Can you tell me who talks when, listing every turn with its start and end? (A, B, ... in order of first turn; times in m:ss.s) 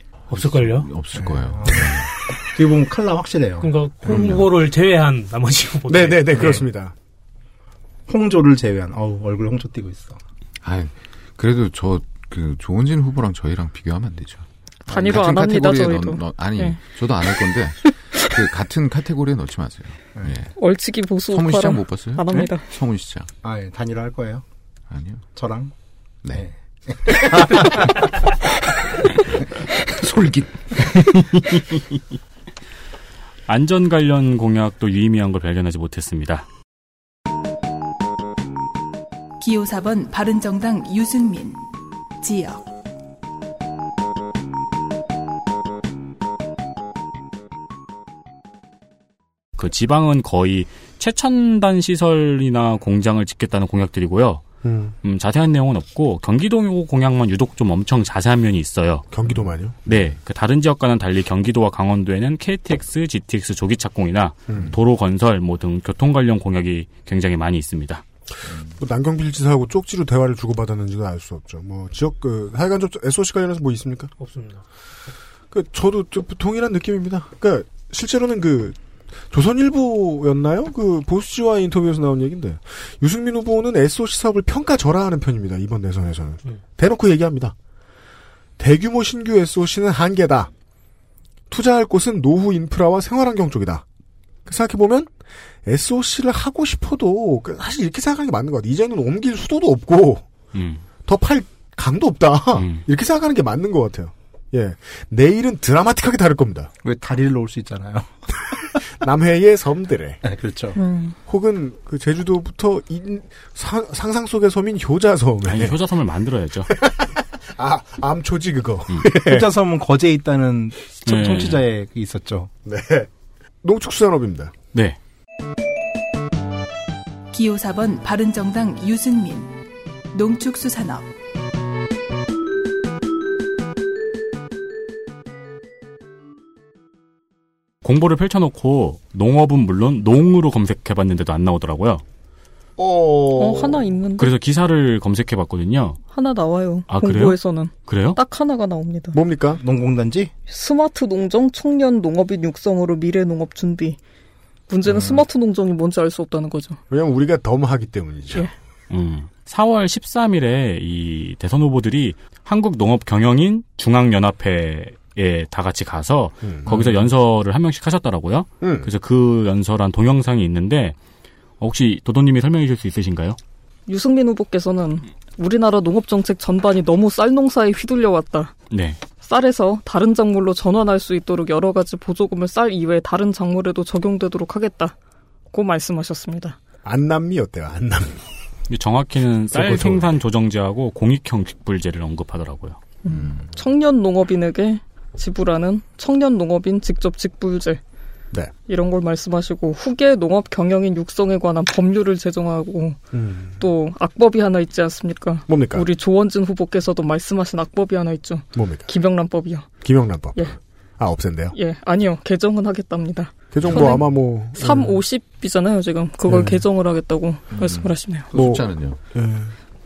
0:00.3-0:00.9 A
0:00.3-0:02.1 B
0:01.1-0:04.1 C
0:03.6-0:06.6 A
0:04.0-0:04.4 B
0:05.9-0:06.9 D
0:08.1-0:10.2 C
0:10.6-0:20.5 B
0:14.9-0:17.6 E
0:20.6-0:22.7 E
0:21.3-0:23.3 B
0:23.4-0:24.4 C
0:24.9-0:25.3 B
0:25.3-0:25.7 C
0:26.3-0:28.2 C
0:29.9-0:30.5 B
0:31.0-0:31.8 F
0:33.5-0:36.5 F
0:39.4-0:41.6 G
0:42.2-0:42.6 G
0:49.6-0:54.4 F
0:54.6-0:54.9 D
0:55.0-0:59.0 F
0:59.1-0:59.9 D
0:59.8-1:08.0 F
1:04.5-1:04.8 D
1:08.5-1:14.1 D
1:14.2-1:14.6 A
1:15.5-1:18.8 D
1:19.3-1:27.6 D
1:28.6-1:30.5 D
1:31.5-1:33.8 D
1:34.4-1:35.1 D
1:35.6-1:40.2 D
1:40.5-1:40.8 F
1:41.0-1:46.7 D
1:42.6-1:42.8 F
1:46.8-1:48.8 C
1:48.9-1:50.2 D
1:50.2-1:50.8 C
1:50.8-1:51.2 E
1:51.3-1:55.8 D
1:55.5-1:56.7 F
1:56.7-1:59.5 D
1:59.1-2:02.5 C
2:01.0-2:01.6 F
2:02.6-2:03.1 D
2:03.6-2:04.5 D
2:04.7-2:05.0 F
2:07.3-2:09.6 G
2:10.1-2:11.1 G
2:17.8-2:22.0 F
2:22.8-2:23.9 D
2:23.4-2:24.3 E
2:24.2-2:26.0 F
2:26.1-2:29.2 E
2:26.9-2:28.2 F
2:29.1-2:29.6 D
2:29.6-2:30.3 C
2:30.5-2:34.0 E
2:34.7-2:36.8 E
2:34.8-2:35.3 C
2:36.9-2:38.5 D
2:38.9-2:51.0 F
2:46.4-2:47.1 D
2:48.6-2:48.9 D
2:51.6-2:53.4 F
2:53.9-2:58.5 E
2:58.7-2:59.0 F
2:59.2-3:05.0 E
3:05.5-3:06.6 E
3:06.8-3:08.2 D
3:08.7-3:12.8 F
3:09.5-3:10.1 D
3:13.0-3:17.8 E
3:18.7-3:23.0 E
3:23.1-3:23.6 D
3:23.6-3:29.7 E
3:25.5-3:25.9 D
3:28.6-3:28.9 D
3:29.8-3:31.6 D
3:31.5-3:38.3 E
3:33.5-3:35.0 D
3:36.3-3:36.7 D
3:37.5-3:39.0 B
3:38.3-3:39.6 D